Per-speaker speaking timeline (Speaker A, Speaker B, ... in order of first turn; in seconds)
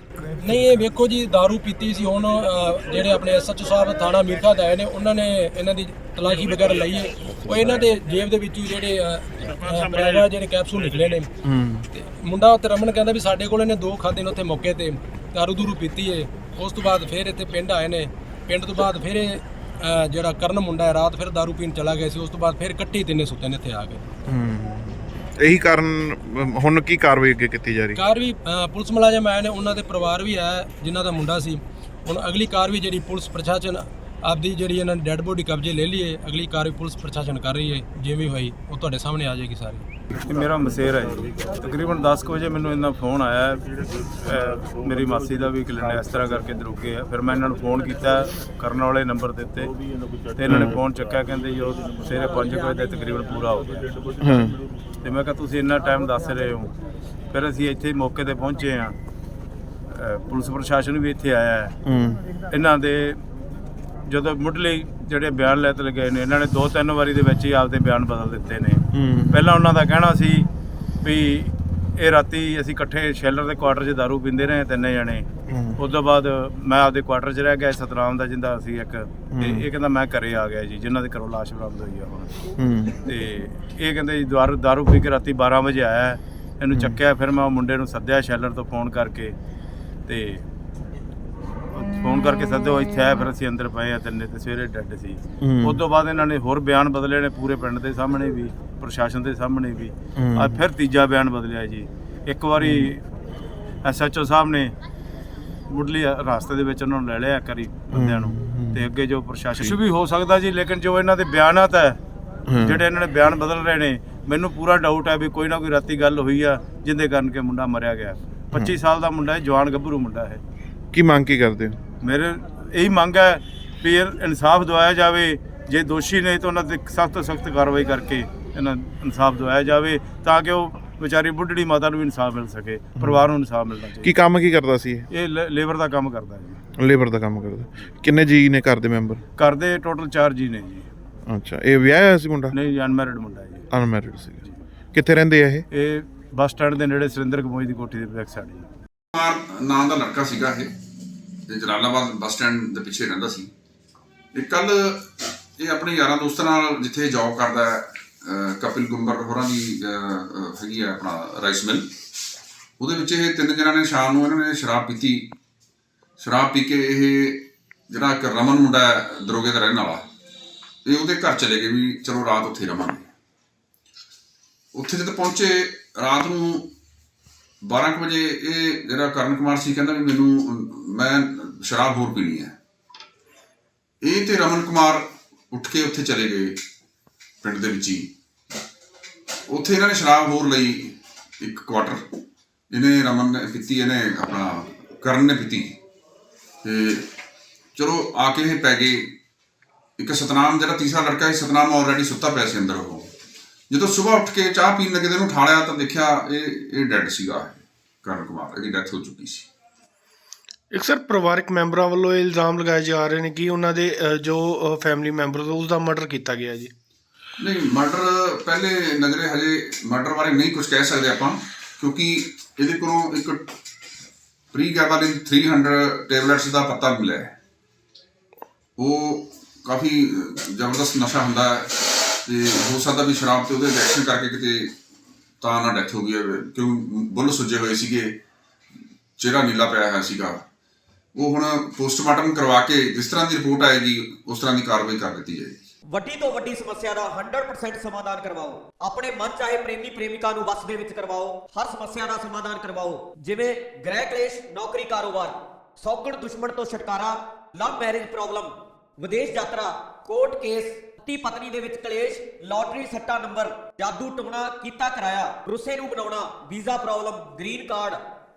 Speaker A: 0.4-11.3, 11.9-24.0, 27.9-39.8
Speaker B: 11.4-11.8, 24.3-28.0, 50.5-50.8, 54.2-54.6, 61.9-62.2, 68.9-69.4, 75.5-75.8, 79.3-79.7, 82.6-83.0, 95.4-95.8, 100.2-100.6, 102.6-102.9, 107.9-108.8, 112.5-112.8, 120.9-121.8, 133.0-133.2, 134.0-135.1, 136.8-139.2, 141.3-142.5, 143.7-144.4, 144.9-145.7
Speaker C: 40.1-43.6, 44.3-49.7, 50.4-53.9, 55.0-56.7, 57.3-58.9, 59.9-61.7, 62.5-63.2, 64.1-68.8, 69.3-70.5, 71.0-75.2, 75.8-82.3, 83.1-89.3, 90.1-90.4, 91.7-103.0, 103.8-104.7, 105.7-112.0, 112.6-120.4, 122.0-134.1, 135.1-136.6, 139.4-140.9, 142.5-143.7, 145.8-148.7
Speaker D: 149.2-150.7, 151.5-153.5, 154.3-155.1, 155.6-161.9, 162.8-165.3, 166.2-170.1, 170.9-173.1, 174.8-176.7, 177.7-182.5, 184.0-186.6, 187.4-188.1, 189.5-192.0, 192.7-195.8, 196.6-197.1, 197.8-199.1, 200.0-203.1, 203.7-209.5, 217.4-223.5, 224.5-227.3, 228.8-234.7, 235.4-238.1, 239.2-240.4, 241.2-245.6
Speaker E: 210.7-216.7
Speaker F: 245.9-268.0